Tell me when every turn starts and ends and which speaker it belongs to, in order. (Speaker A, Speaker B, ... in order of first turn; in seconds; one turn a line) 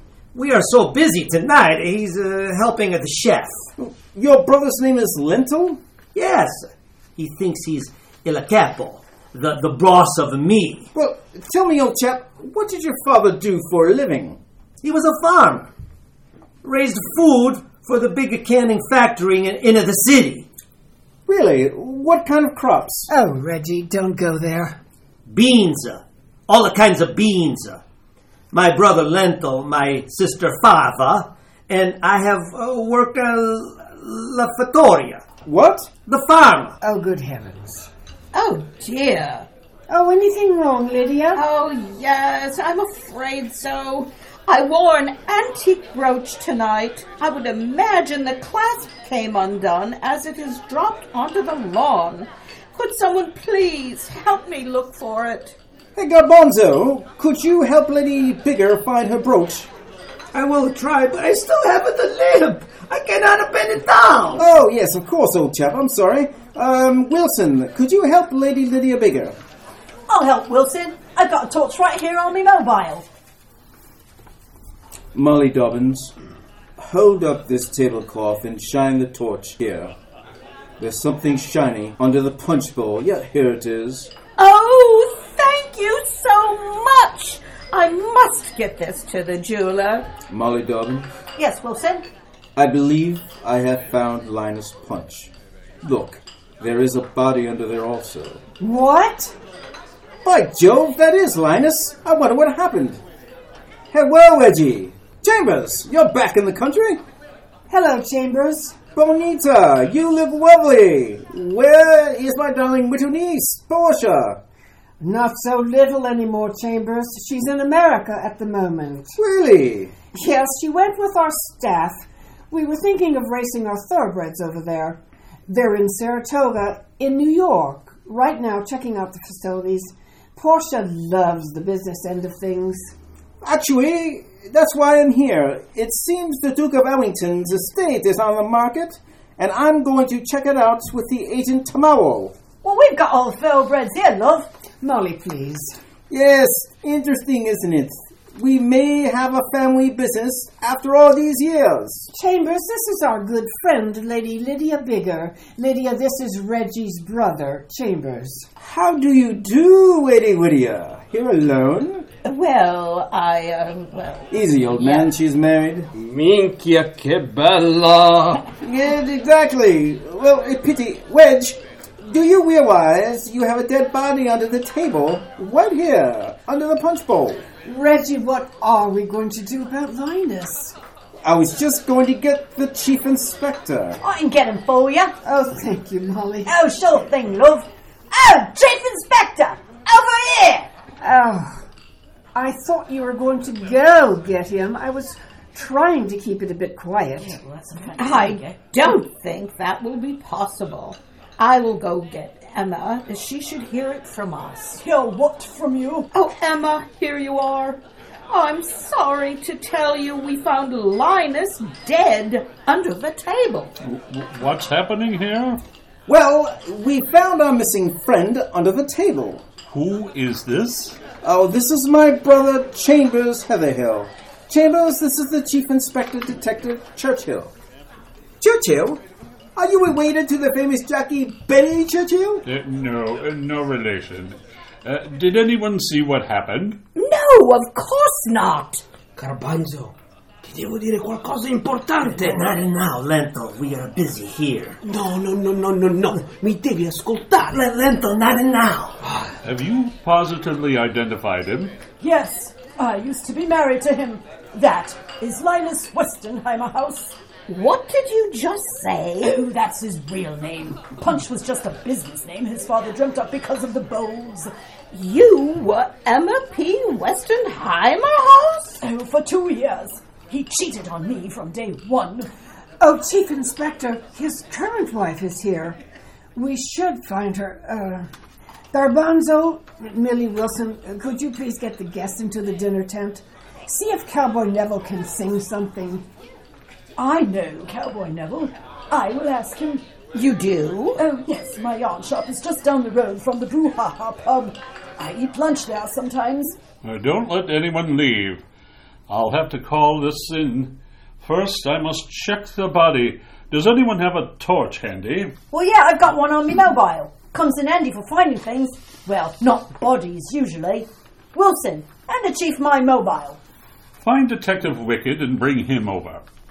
Speaker A: 0.3-3.7
Speaker B: 3.8-5.8
Speaker A: 6.2-10.9
Speaker B: 10.9-14.4
Speaker A: 14.8-15.7
Speaker A: 16.6-20.5
Speaker B: 21.3-23.1
Speaker C: 23.1-24.8
Speaker A: 25.3-27.8
Speaker A: 28.5-35.2
Speaker B: 35.5-35.9
Speaker A: 36.0-36.7
Speaker C: 36.8-37.9
Speaker D: 38.3-39.5
Speaker C: 39.9-41.4
Speaker D: 41.3-55.5
Speaker B: 56.0-59.7
Speaker A: 60.3-64.4
Speaker B: 64.4-69.4
Speaker E: 70.1-73.1
Speaker B: 75.2-76.1
Speaker B: 76.8-79.9
Speaker B: 80.8-84.1
Speaker D: 84.4-90.1
Speaker B: 90.3-91.1
Speaker E: 91.4-92.1
Speaker B: 92.6-95.3
Speaker B: 95.8-98.4
Speaker C: 98.6-99.3
Speaker B: 100.2-103.0
Speaker B: 103.9-107.0
Speaker C: 107.7-108.8
Speaker B: 109.0-114.4
Speaker C: 115.0-119.1
Speaker B: 119.2-119.9
Speaker C: 120.1-132.9
Speaker B: 133.4-142.3
Speaker E: 142.6-144.5
Speaker C: 144.8-145.7
Speaker B: 146.1-152.1
Speaker C: 152.1-158.5
Speaker B: 158.6-162.1
Speaker D: 162.2-165.1
Speaker B: 164.3-165.9
Speaker F: 165.9-168.5
Speaker B: 168.6-177.5
Speaker C: 177.7-180.8
Speaker B: 181.2-184.0
Speaker E: 184.0-185.2
Speaker C: 185.2-186.6
Speaker E: 186.4-190.7
Speaker C: 191.0-191.5
Speaker C: 192.3-197.4
Speaker E: 197.2-198.9
Speaker D: 198.0-204.8
Speaker E: 204.8-206.1
Speaker D: 206.1-213.7
Speaker G: 213.8-215.6
Speaker B: 216.1-219.4
Speaker G: 219.7-221.0
Speaker B: 221.2-227.5
Speaker B: 228.4-229.0
Speaker B: 229.6-232.4
Speaker G: 232.4-236.8
Speaker D: 237.0-238.8
Speaker F: 239.2-242.6
Speaker A: 242.1-244.8
Speaker F: 244.8-247.6
Speaker A: 247.5-249.0
Speaker F: 249.0-249.3
Speaker G: 249.4-251.8
Speaker E: 252.0-257.1
Speaker D: 257.5-259.4
Speaker E: 259.2-264.5
Speaker D: 264.9-268.8
Speaker E: 268.8-272.3
Speaker C: 272.8-275.8
Speaker C: 276.4-278.1
Speaker C: 278.7-286.1
Speaker E: 287.0-289.9
Speaker D: 290.1-291.0
Speaker E: 291.0-296.6
Speaker G: 296.8-298.4
Speaker G: 299.1-305.4
Speaker E: 305.5-313.4
Speaker G: 314.0-316.2